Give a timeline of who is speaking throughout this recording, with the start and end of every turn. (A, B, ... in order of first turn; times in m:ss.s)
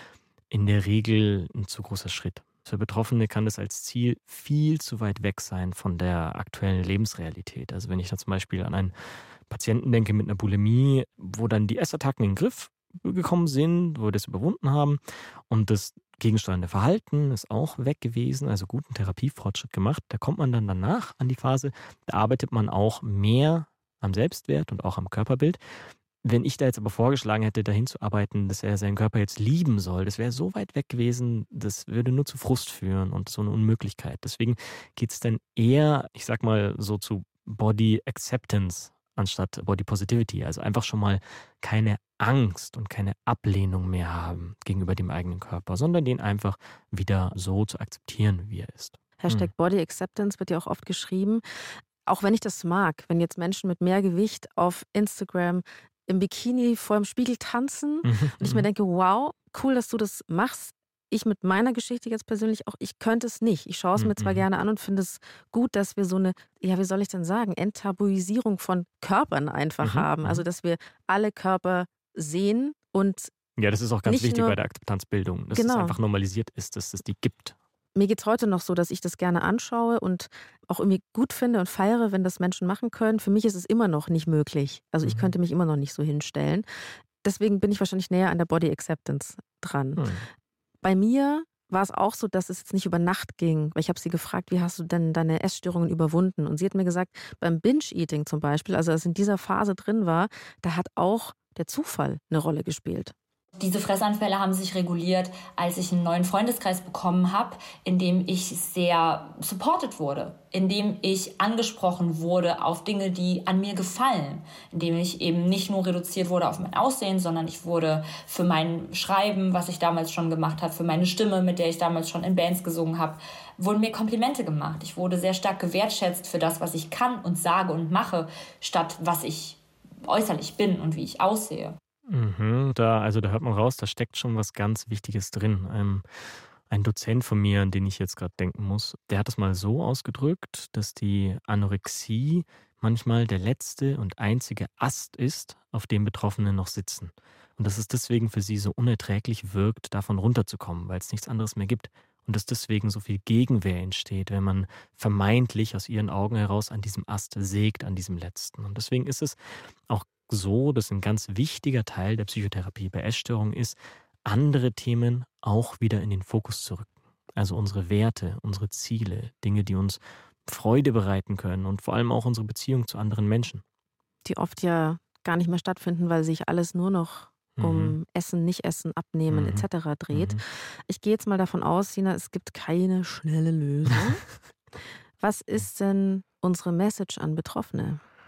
0:00.5-0:08.9 A
0:09.5-0:25.6 A
0:26.2-0:49.5 A
0:49.2-0:51.4 B
0:52.1-1:13.3 B
0:58.0-0:58.7 A
1:04.0-1:04.5 A
1:09.8-1:10.4 A
1:13.6-1:17.6 A
1:14.1-1:14.6 B
1:15.5-1:16.0 B
1:18.0-1:26.6 B
1:25.0-1:25.3 A
1:27.2-1:30.1 B
1:30.0-1:30.2 A
1:30.8-1:43.1 B
1:43.6-2:11.8 C
2:12.1-2:16.0 A
2:16.7-2:39.4 A
2:39.9-2:53.6 A
2:54.2-3:04.2 B
2:57.6-2:58.0 A
2:59.3-3:00.4 A
3:05.2-3:08.0 B